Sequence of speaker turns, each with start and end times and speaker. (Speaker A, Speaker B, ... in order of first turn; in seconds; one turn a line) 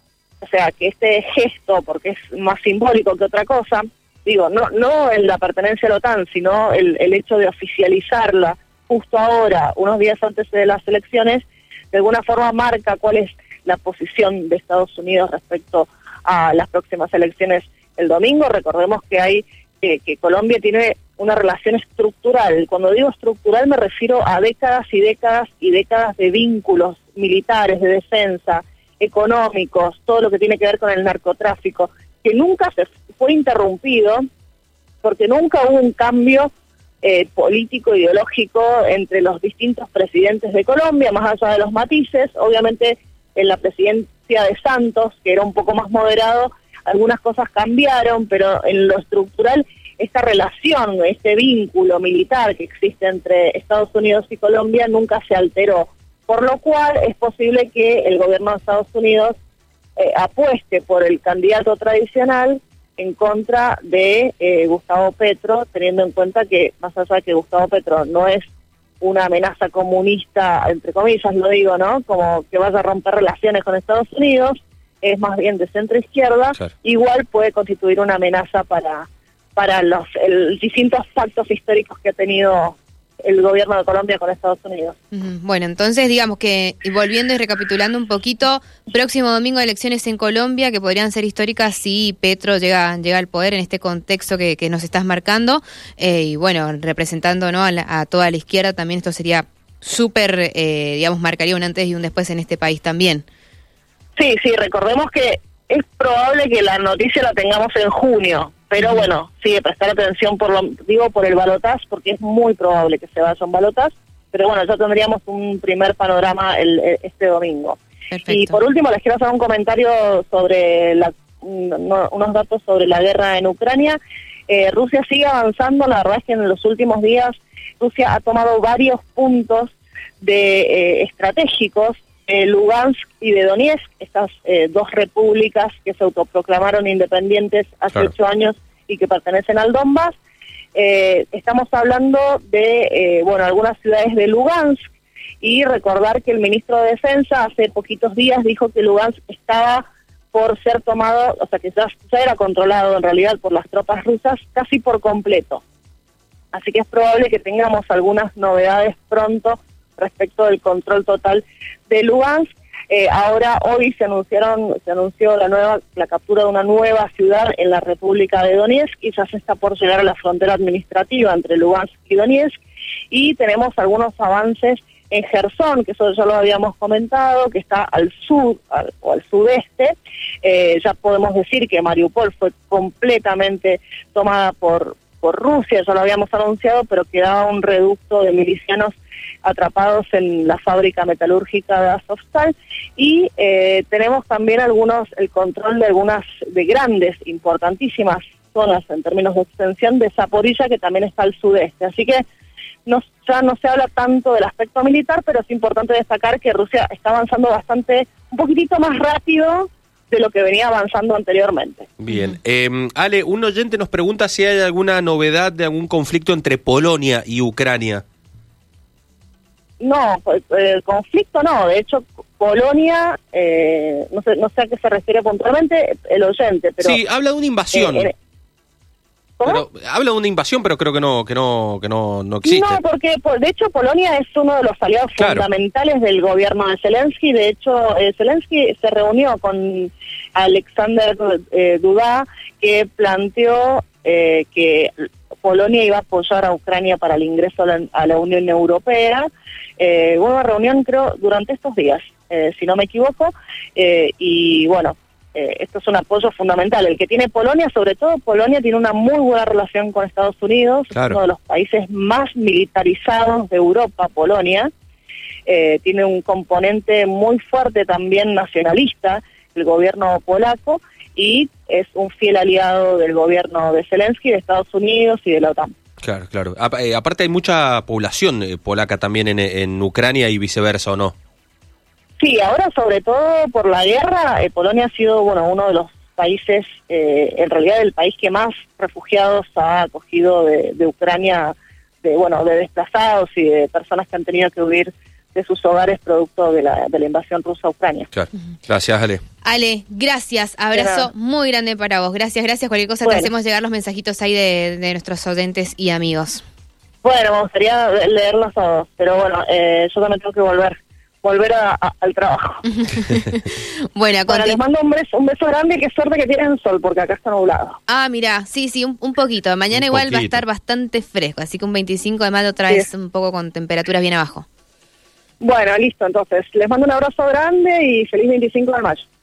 Speaker A: 0.4-34.2
Speaker A: 35.0-36.5
Speaker A: 37.0-59.3
Speaker A: 60.0-68.5
Speaker A: 69.0-85.0
Speaker B: 85.1-103.2
Speaker A: 104.2-124.0
Speaker B: 108.8-109.1
Speaker B: 118.1-118.6
Speaker A: 124.5-140.2
Speaker A: 140.8-144.8
Speaker A: 145.4-155.6
Speaker A: 156.5-172.6
Speaker A: 173.1-202.2
Speaker A: 202.9-211.9
Speaker C: 212.0-218.0
Speaker B: 212.1-212.4
Speaker A: 219.8-227.0
Speaker C: 226.8-228.1
Speaker A: 227.7-228.1
Speaker C: 229.5-232.8
Speaker A: 232.4-244.9
Speaker C: 235.2-235.4
Speaker A: 245.4-249.3
Speaker A: 249.8-264.7
Speaker C: 260.9-261.2
Speaker A: 265.5-275.7
Speaker C: 276.0-281.1
Speaker A: 282.2-298.1
Speaker C: 298.1-299.2
Speaker B: 299.4-306.4
Speaker A: 300.7-301.1
Speaker A: 303.0-303.3
Speaker A: 307.0-312.6
Speaker B: 312.8-314.6
Speaker A: 314.3-317.8
Speaker B: 317.9-324.5
Speaker C: 319.7-320.4
Speaker A: 325.4-329.1